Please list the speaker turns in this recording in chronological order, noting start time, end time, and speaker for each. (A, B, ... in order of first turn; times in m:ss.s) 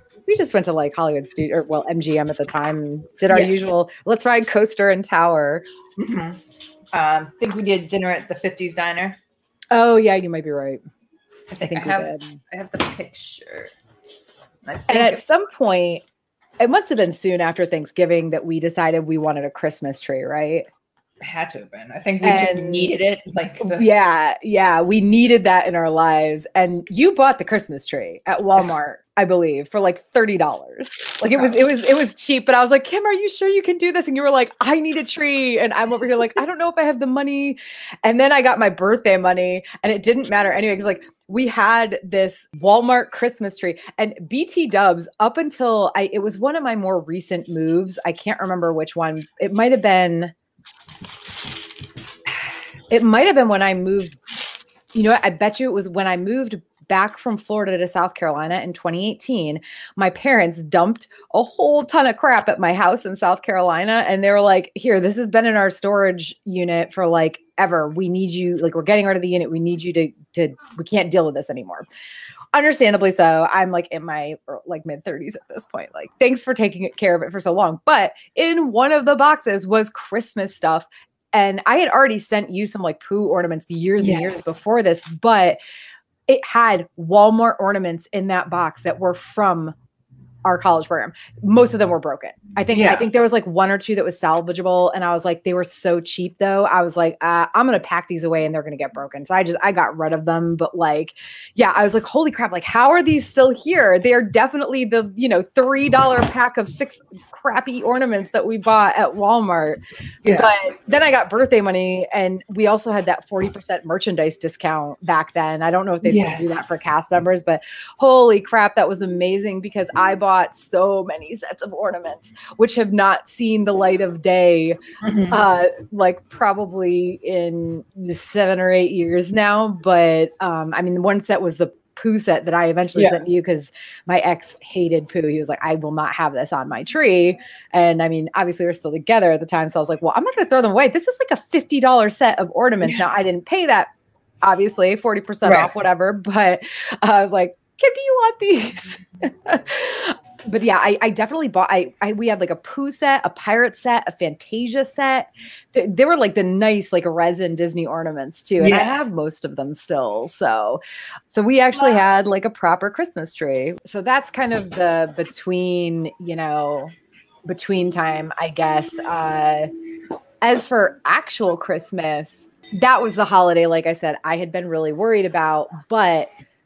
0:00.3-0:05.6 A
0:03.3-0:03.7 B
0:06.0-0:06.4 B
0:06.9-0:09.2 B
0:09.7-0:10.8 A
0:11.5-0:13.7 B
0:11.6-0:12.4 A
0:14.6-0:15.2 B
0:14.9-0:16.0 A
0:16.6-0:20.6 A
0:21.2-0:23.9 B
0:22.2-0:22.9 A
0:23.6-0:50.3 A
0:31.3-0:31.6 B
0:52.9-1:11.8 A
1:12.5-1:25.6 A
1:24.0-1:24.5 B
1:26.3-1:29.8 A
1:30.4-1:49.8 A
1:32.7-1:33.1 B
1:50.2-1:50.5 B
1:50.3-2:23.9 A
1:56.0-1:56.8 B
2:05.0-2:05.4 B
2:24.4-2:40.8 A
2:25.4-2:25.7 B
2:38.6-2:39.1 B
2:41.3-2:46.9 A
2:47.4-2:49.7 A
2:50.4-2:56.3 A